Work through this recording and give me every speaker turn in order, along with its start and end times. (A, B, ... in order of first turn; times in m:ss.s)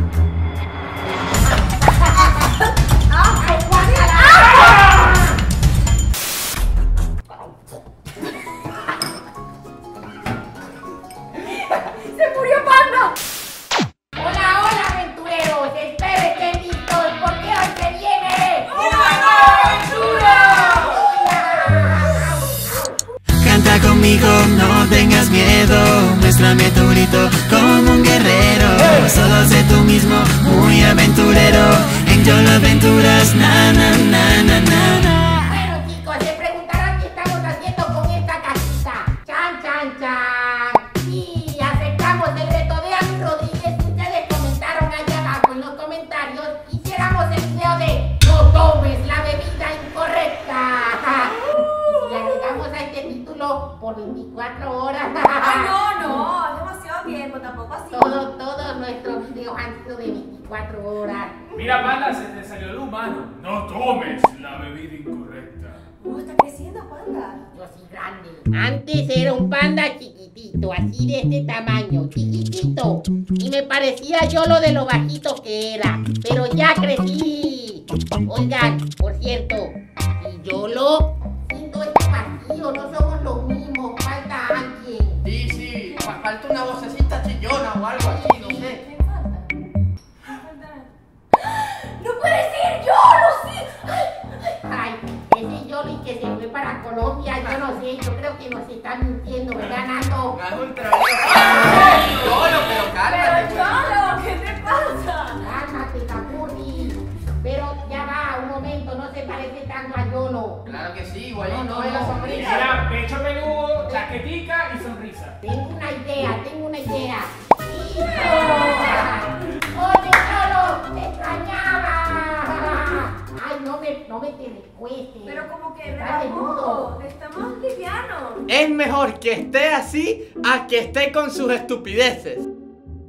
0:01.5-0:02.5 A
0:03.1-0:04.9 B
0:03.4-0:05.4 A
0:11.4-0:13.2 B
0:14.2-0:18.7 A
0:18.7-0:21.0 B
0:18.7-0:21.0 C
0:19.7-0:23.0 A
0:23.4-0:35.5 D
0:35.4-0:55.8 A
0:51.5-0:52.3 B
0:55.4-0:58.1 B
0:57.9-1:01.4 A
1:01.5-1:05.8 C
1:06.0-1:07.5 B
1:07.5-1:25.2 A
1:25.2-1:28.8 E
1:25.8-1:26.1 B
1:28.0-1:28.7 A
1:28.5-1:29.7 B
1:30.3-1:34.6 B
1:34.6-1:40.4 A
1:40.3-1:43.8 E
1:41.3-1:42.2 C
1:41.5-1:45.4 B
1:45.4-1:50.6 A
1:50.6-1:52.7 E
1:51.5-1:52.6 A
1:52.3-1:55.4 C
1:53.8-1:54.1 A
1:55.4-2:05.4 A
1:58.2-1:59.1 B
2:05.2-2:08.5 B
2:06.0-2:06.9 A
2:08.5-2:12.4 E